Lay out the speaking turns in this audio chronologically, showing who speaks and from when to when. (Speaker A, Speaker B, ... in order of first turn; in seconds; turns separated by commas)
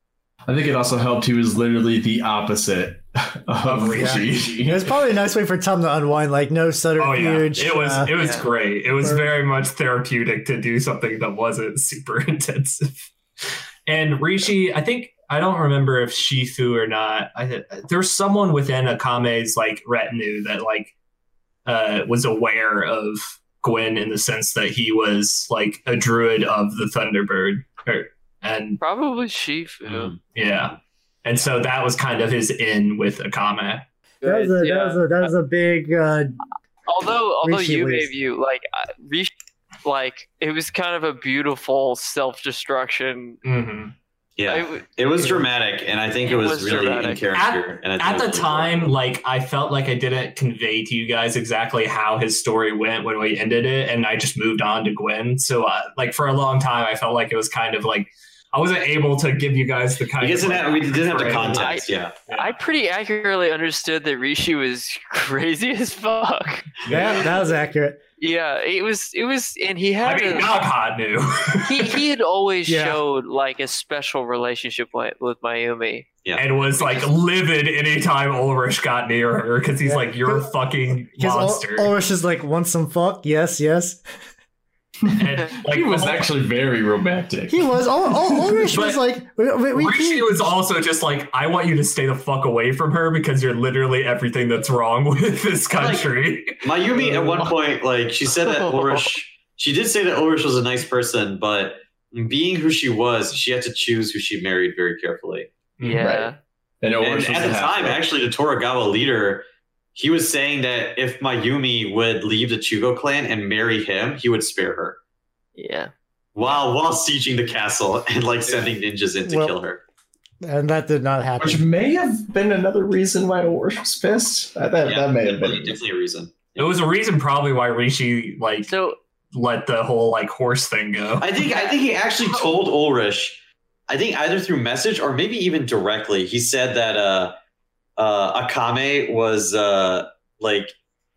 Speaker A: 0.5-5.0, Speaker B: 3.6-4.4, Speaker C: 4.0-8.1, Speaker B: 7.0-20.9, Speaker D: 8.1-8.4, Speaker C: 9.0-9.3, Speaker B: 21.7-28.8, Speaker D: 28.8-30.1, Speaker E: 29.9-30.2, Speaker B: 30.3-33.9, Speaker D: 34.2-35.3, Speaker C: 34.2-36.4, Speaker D: 36.9-39.3, Speaker C: 37.4-38.1, Speaker D: 39.8-43.4, Speaker B: 43.4-43.9, Speaker E: 44.4-48.9, Speaker D: 44.5-45.5, Speaker D: 46.2-47.3, Speaker B: 47.3-61.8, Speaker E: 60.2-62.2, Speaker D: 61.3-66.8, Speaker B: 62.3-62.5, Speaker C: 66.9-68.0, Speaker D: 68.2-70.5, Speaker B: 70.0-72.0, Speaker D: 71.7-76.1, Speaker C: 72.7-73.0, Speaker E: 76.2-77.0, Speaker B: 76.4-81.9, Speaker C: 79.8-80.5, Speaker C: 81.0-84.0, Speaker B: 85.1-86.3, Speaker A: 85.7-88.7, Speaker C: 87.5-90.5, Speaker B: 88.7-89.0, Speaker B: 89.7-96.6, Speaker E: 95.8-96.1, Speaker E: 96.6-105.5, Speaker D: 98.5-99.0, Speaker B: 105.8-106.1, Speaker D: 105.8-106.4, Speaker A: 106.0-106.3, Speaker A: 106.8-108.1, Speaker E: 107.0-115.0, Speaker D: 115.6-115.9, Speaker E: 116.3-119.8, Speaker C: 119.3-119.6, Speaker C: 120.4-121.7, Speaker A: 121.4-125.8, Speaker E: 124.8-126.8, Speaker B: 126.6-128.7, Speaker D: 128.7-129.0, Speaker B: 129.3-131.4, Speaker E: 131.2-137.3, Speaker E: 138.0-140.8